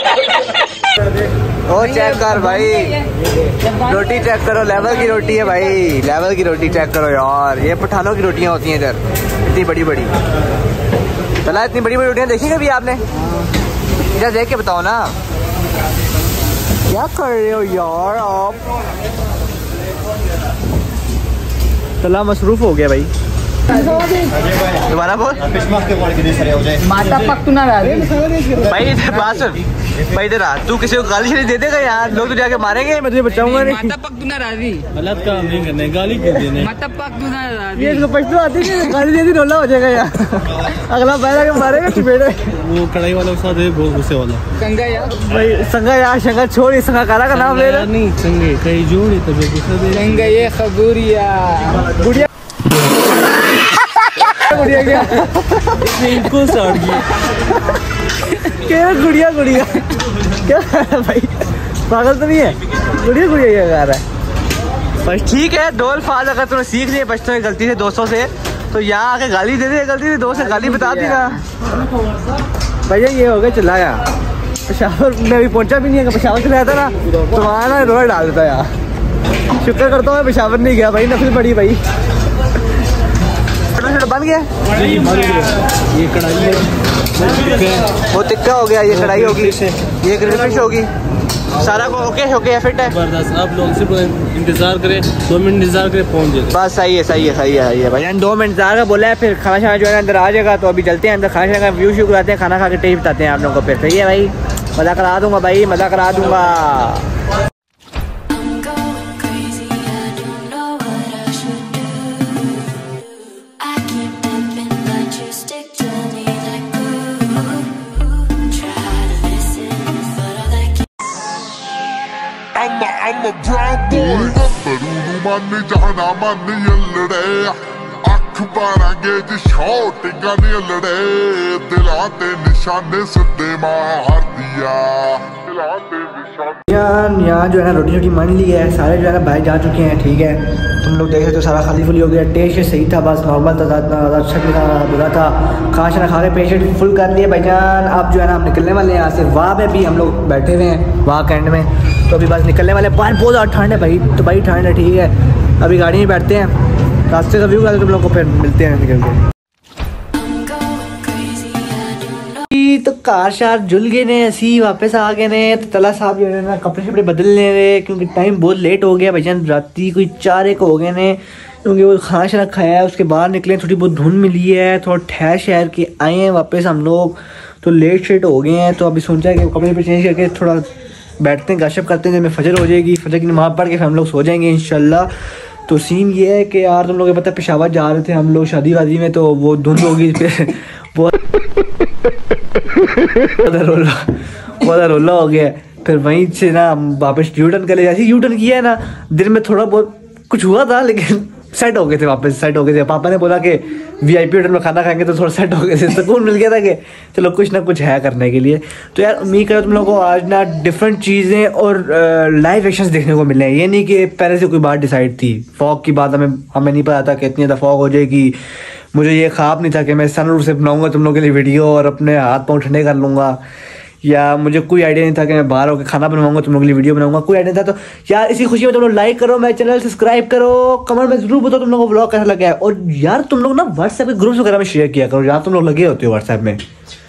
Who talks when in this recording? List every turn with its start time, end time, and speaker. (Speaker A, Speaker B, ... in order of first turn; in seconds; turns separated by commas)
Speaker A: 1.6-3.0, Speaker B: 1.8-3.0, Speaker A: 3.8-10.1, Speaker A: 11.4-13.0, Speaker A: 14.1-15.1, Speaker A: 16.9-18.6, Speaker A: 22.0-23.1, Speaker B: 23.7-24.2, Speaker A: 24.7-26.0, Speaker B: 26.6-28.4, Speaker A: 28.6-34.0, Speaker B: 33.3-34.9, Speaker C: 34.9-36.7, Speaker B: 36.6-38.1, Speaker A: 37.7-42.5, Speaker C: 42.6-44.4, Speaker B: 44.5-45.1, Speaker A: 45.1-47.9, Speaker C: 47.3-50.4, Speaker B: 49.9-52.3, Speaker A: 53.9-56.7, Speaker B: 54.5-55.2, Speaker C: 55.8-57.0, Speaker A: 58.3-64.0, Speaker A: 65.0-71.4, Speaker B: 70.3-71.4, Speaker A: 72.9-74.0, Speaker A: 74.7-78.7, Speaker A: 79.5-81.8, Speaker A: 83.7-84.5, Speaker C: 84.7-87.9, Speaker A: 88.1-90.9, Speaker A: 91.5-93.0, Speaker C: 92.9-96.5, Speaker A: 96.5-107.0, Speaker D: 122.5-136.7, Speaker A: 136.7-156.5, Speaker A: 157.1-159.2, Speaker A: 162.5-180.7, Speaker A: 181.2-185.1, Speaker A: 185.7-191.3, Speaker A: 192.7-218.3, Speaker A: 218.9-223.4, Speaker A: 224.0-236.6